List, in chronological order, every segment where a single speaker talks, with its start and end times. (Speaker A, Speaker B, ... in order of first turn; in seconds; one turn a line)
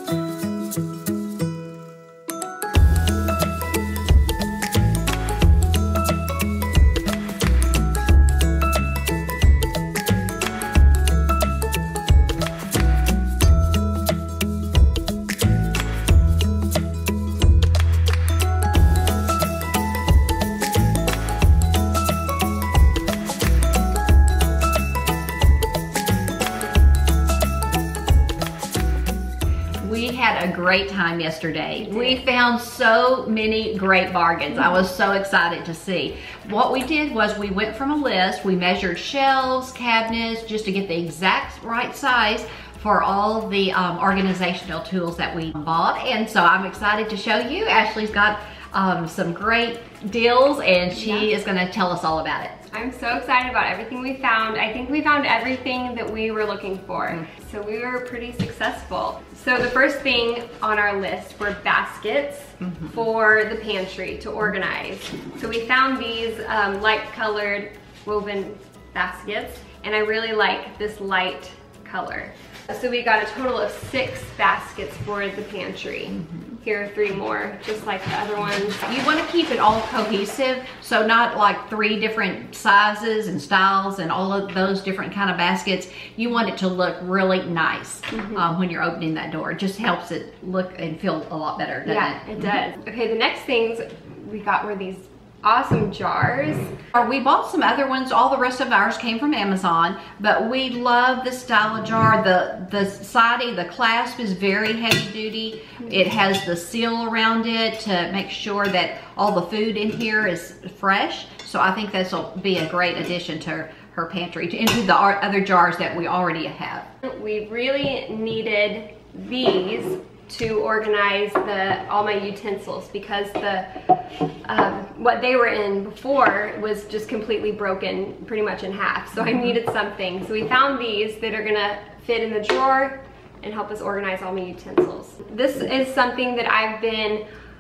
Speaker A: 29.8-52.6
Speaker B: 31.8-32.2
Speaker B: 50.9-51.3
Speaker B: 52.7-78.8
Speaker A: 62.6-63.0
Speaker A: 78.7-92.5
Speaker B: 88.1-88.4
Speaker B: 91.8-96.7
Speaker A: 96.9-116.9
Speaker B: 117.0-123.7
Speaker B: 124.5-137.2
Speaker A: 129.2-129.6